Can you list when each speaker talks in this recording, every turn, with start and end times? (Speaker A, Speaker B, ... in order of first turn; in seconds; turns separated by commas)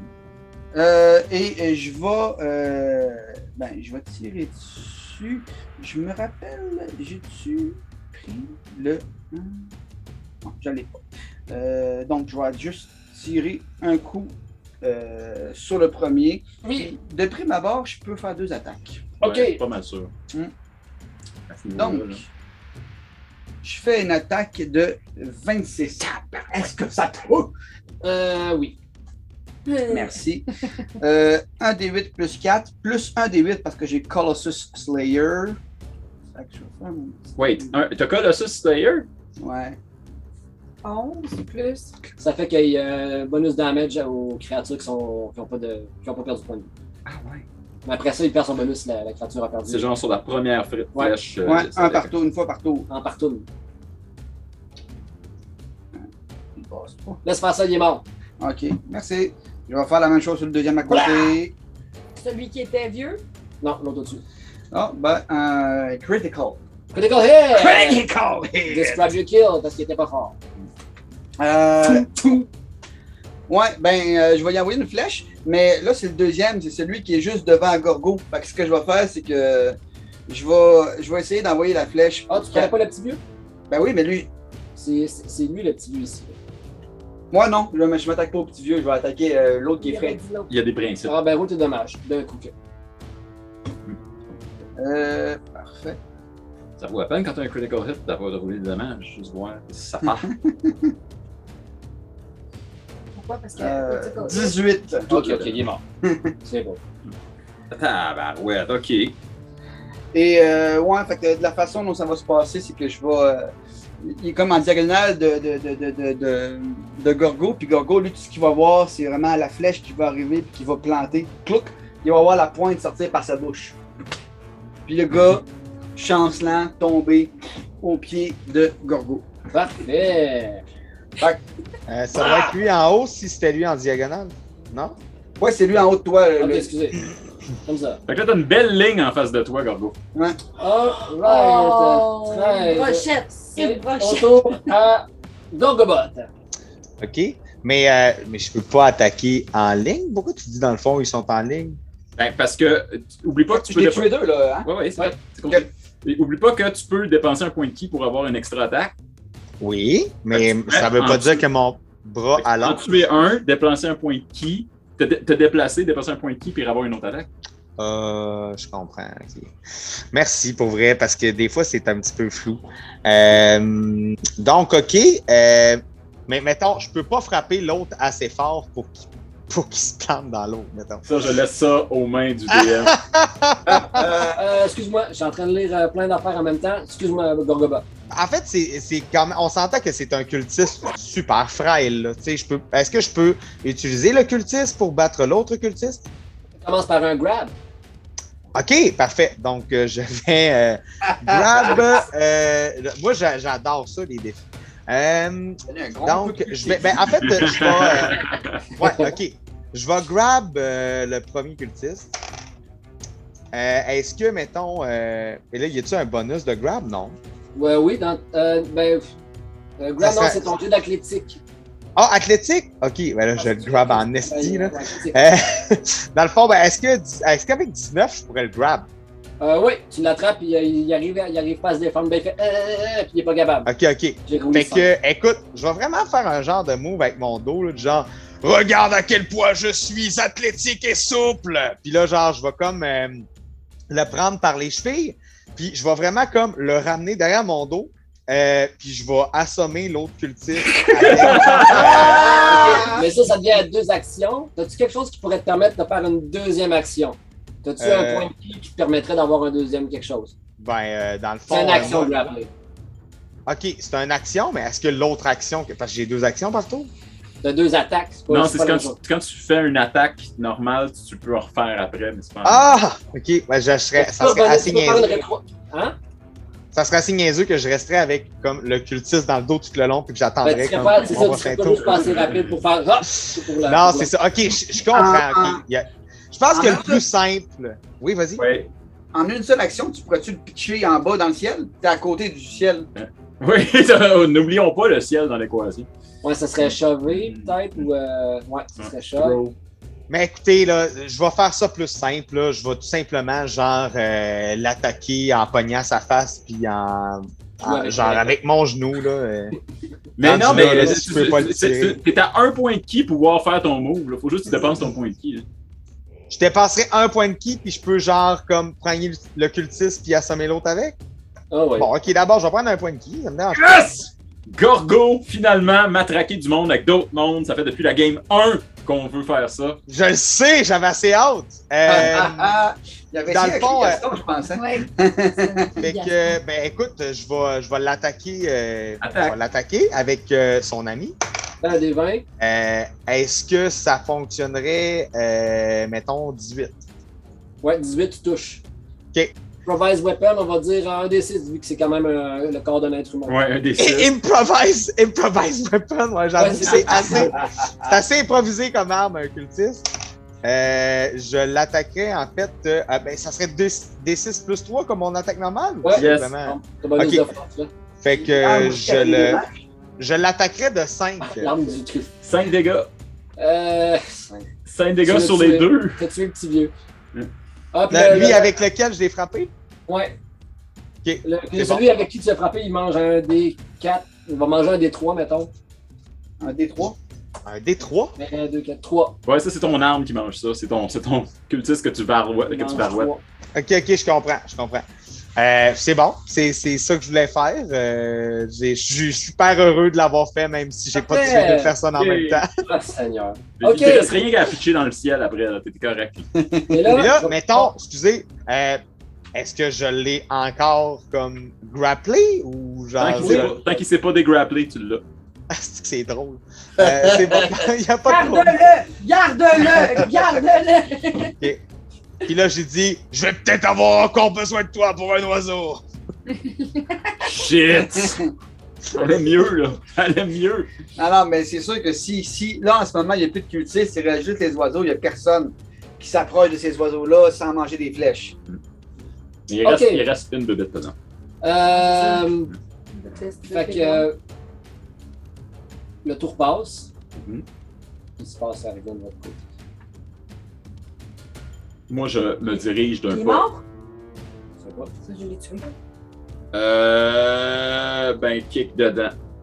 Speaker A: 0.7-9.7, Speaker A: 10.4-11.0, Speaker A: 11.5-19.0, Speaker B: 16.6-16.9, Speaker B: 19.2-19.6, Speaker C: 19.2-20.1, Speaker C: 21.5-22.2, Speaker A: 21.7-22.3, Speaker A: 23.6-27.5, Speaker B: 28.0-28.8, Speaker D: 29.7-30.2, Speaker A: 29.9-30.5, Speaker A: 31.0-35.6, Speaker A: 36.4-37.8, Speaker C: 37.4-39.1, Speaker A: 39.4-39.8, Speaker D: 40.8-41.9, Speaker B: 42.2-46.7, Speaker C: 47.1-47.4, Speaker B: 47.9-49.9, Speaker C: 49.7-52.1, Speaker A: 51.4-52.9, Speaker B: 52.9-53.5, Speaker A: 56.0-57.2, Speaker B: 57.2-58.0, Speaker A: 58.4-61.5, Speaker D: 62.2-63.2, Speaker B: 63.6-64.2, Speaker A: 64.7-66.6, Speaker B: 66.9-68.1, Speaker A: 67.6-68.8, Speaker B: 68.7-70.4, Speaker A: 71.4-72.5, Speaker A: 73.5-79.8, Speaker A: 80.3-82.7, Speaker B: 82.3-83.2, Speaker A: 83.7-84.3, Speaker B: 84.8-86.4, Speaker A: 87.3-90.2, Speaker D: 89.8-90.5, Speaker C: 90.5-91.1, Speaker B: 91.1-92.5, Speaker A: 94.8-96.0, Speaker C: 96.8-100.3, Speaker A: 100.0-100.9, Speaker D: 103.2-104.6, Speaker A: 103.6-105.1, Speaker B: 105.1-105.8, Speaker C: 105.1-105.6, Speaker A: 106.1-106.3, Speaker B: 106.4-106.8, Speaker C: 107.7-109.2, Speaker A: 110.1-123.8, Speaker A: 124.9-129.3, Speaker B: 129.5-130.6, Speaker E: 131.9-135.0, Speaker A: 135.4-136.7, Speaker B: 136.4-137.0, Speaker B: 137.7-138.0, Speaker C: 138.1-140.0, Speaker B: 140.6-146.3, Speaker D: 141.2-144.7, Speaker E: 147.0-151.8, Speaker C: 152.2-158.9, Speaker A: 153.5-154.7, Speaker E: 159.6-162.8, Speaker C: 160.3-161.4, Speaker C: 162.4-167.3, Speaker E: 167.8-169.5, Speaker E: 170.1-181.0, Speaker C: 181.0-183.0, Speaker E: 182.5-184.1, Speaker A: 183.7-184.4, Speaker B: 184.3-187.8, Speaker E: 188.1-196.0, Speaker B: 196.6-197.5, Speaker E: 198.6-212.1, Speaker A: 201.3-201.8, Speaker A: 205.7-207.6, Speaker C: 207.2-208.6, Speaker B: 208.8-209.2, Speaker E: 213.5-217.2, Speaker B: 217.6-219.1, Speaker B: 219.8-221.4, Speaker E: 220.0-220.5, Speaker E: 222.0-228.9, Speaker B: 223.4-225.2, Speaker B: 229.4-233.7, Speaker E: 233.7-243.3, Speaker B: 234.3-234.9, Speaker E: 243.9-252.8, Speaker C: 250.7-252.1, Speaker A: 252.1-253.1, Speaker D: 252.3-252.9, Speaker B: 252.5-260.3, Speaker E: 257.8-258.3, Speaker E: 260.6-262.2, Speaker B: 261.5-262.5, Speaker E: 263.5-266.9, Speaker B: 267.4-269.0, Speaker C: 268.3-272.7, Speaker E: 272.4-275.1, Speaker B: 274.0-276.0, Speaker E: 276.7-282.2, Speaker B: 280.4-284.1, Speaker C: 281.7-282.6, Speaker E: 283.0-288.5, Speaker A: 284.9-285.6, Speaker A: 286.5-287.0, Speaker C: 288.4-288.7, Speaker A: 289.1-292.9, Speaker C: 293.0-295.9, Speaker B: 296.2-299.4, Speaker C: 296.7-297.9, Speaker C: 298.8-299.6, Speaker E: 300.1-309.6, Speaker B: 307.6-308.3, Speaker C: 310.2-315.5, Speaker E: 310.2-312.0, Speaker E: 316.3-321.0, Speaker B: 321.5-321.9, Speaker E: 321.8-323.9, Speaker C: 323.6-323.9, Speaker C: 324.5-329.8, Speaker E: 329.9-332.5, Speaker A: 331.9-335.7, Speaker E: 333.3-334.0, Speaker D: 334.5-336.4, Speaker E: 335.8-341.1, Speaker C: 339.0-339.4, Speaker B: 341.6-342.2, Speaker E: 342.4-346.8, Speaker B: 347.6-348.6, Speaker B: 349.6-353.4, Speaker C: 353.3-354.1, Speaker E: 353.8-359.9, Speaker B: 356.4-357.3, Speaker E: 360.4-367.3, Speaker B: 365.8-367.7, Speaker C: 365.9-366.3, Speaker E: 368.0-369.4, Speaker A: 368.1-369.6, Speaker E: 370.0-371.5, Speaker B: 371.2-372.1, Speaker C: 372.2-372.9, Speaker B: 373.4-374.5, Speaker C: 374.7-376.0, Speaker B: 375.0-376.7, Speaker B: 377.7-378.5, Speaker E: 377.9-379.5, Speaker B: 379.9-380.2, Speaker E: 381.0-381.9, Speaker B: 381.2-385.5, Speaker A: 386.4-387.0, Speaker E: 387.4-388.2, Speaker B: 388.2-389.2, Speaker C: 389.3-393.1, Speaker B: 392.5-393.2, Speaker E: 393.6-394.9, Speaker E: 395.4-402.5, Speaker B: 400.9-401.8, Speaker C: 401.9-402.4, Speaker B: 402.6-404.2, Speaker C: 403.6-406.3, Speaker A: 406.4-407.1, Speaker B: 406.7-407.7, Speaker E: 406.9-408.8, Speaker E: 409.3-413.6, Speaker C: 413.0-415.1, Speaker B: 413.2-413.5, Speaker E: 415.5-418.6, Speaker A: 416.8-417.5, Speaker D: 418.1-421.4, Speaker E: 422.2-425.8, Speaker D: 426.5-427.1, Speaker C: 427.2-428.2, Speaker A: 427.6-428.3, Speaker C: 428.9-430.7, Speaker A: 431.0-438.4, Speaker C: 439.5-440.9, Speaker B: 439.6-440.1, Speaker B: 441.4-442.5, Speaker D: 441.6-442.3, Speaker D: 442.9-444.1, Speaker B: 443.5-444.2, Speaker B: 446.1-446.9, Speaker C: 447.1-447.4, Speaker B: 448.2-449.4, Speaker C: 451.9-453.5, Speaker D: 453.1-453.6, Speaker B: 454.6-454.9, Speaker D: 455.0-455.7, Speaker C: 456.5-459.2